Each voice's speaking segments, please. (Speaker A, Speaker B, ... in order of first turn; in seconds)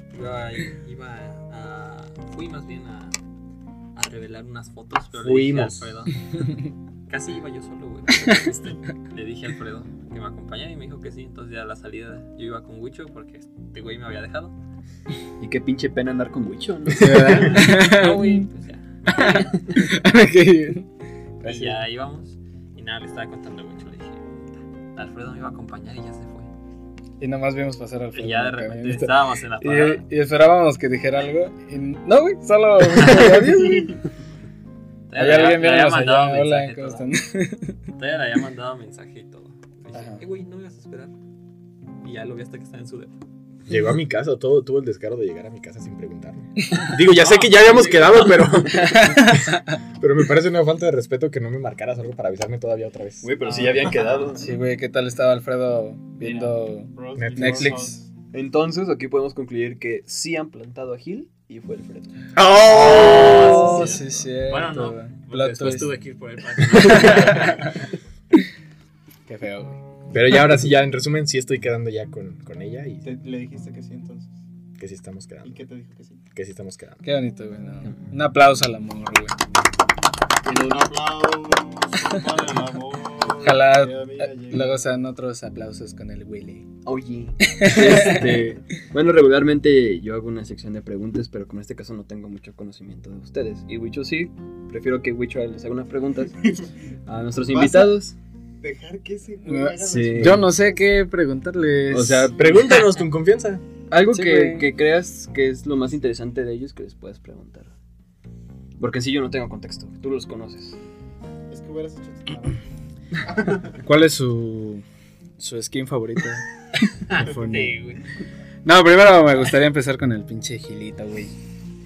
Speaker A: 0.1-3.2, 4.0-6.2, 7.1-14.6, 17.4-19.9, 21.4-26.5, 28.1-30.0, 35.1-37.1, 38.0-41.1, 42.0-43.2, 47.2-48.4, 62.7-67.8, 117.1-118.0
Speaker B: 5.1-5.9, 43.7-53.3, 57.2-57.8, 62.4-63.8, 70.1-73.1, 74.8-75.6, 76.3-77.0, 102.3-103.6
Speaker C: 15.4-17.7, 47.5-49.3, 53.2-54.6, 58.3-62.1, 86.8-96.5, 97.1-98.2, 99.9-100.5, 101.9-102.9, 103.9-107.7, 108.8-110.8
Speaker D: 16.9-18.5, 19.1-20.9, 21.4-21.8, 27.2-34.0, 35.1-37.8, 39.9-40.2, 48.9-49.7, 54.4-58.0, 63.4-66.0, 66.6-67.7, 69.3-69.8, 77.0-79.4, 83.4-86.7, 87.5-88.5, 99.5-102.3, 104.1-104.7, 113.8-114.8, 115.4-116.5, 117.1-117.8, 118.7-121.3
Speaker E: 56.9-58.1, 73.0-74.4, 75.4-76.2, 80.4-84.9, 97.5-98.0, 98.6-100.9, 111.5-112.7, 113.2-113.8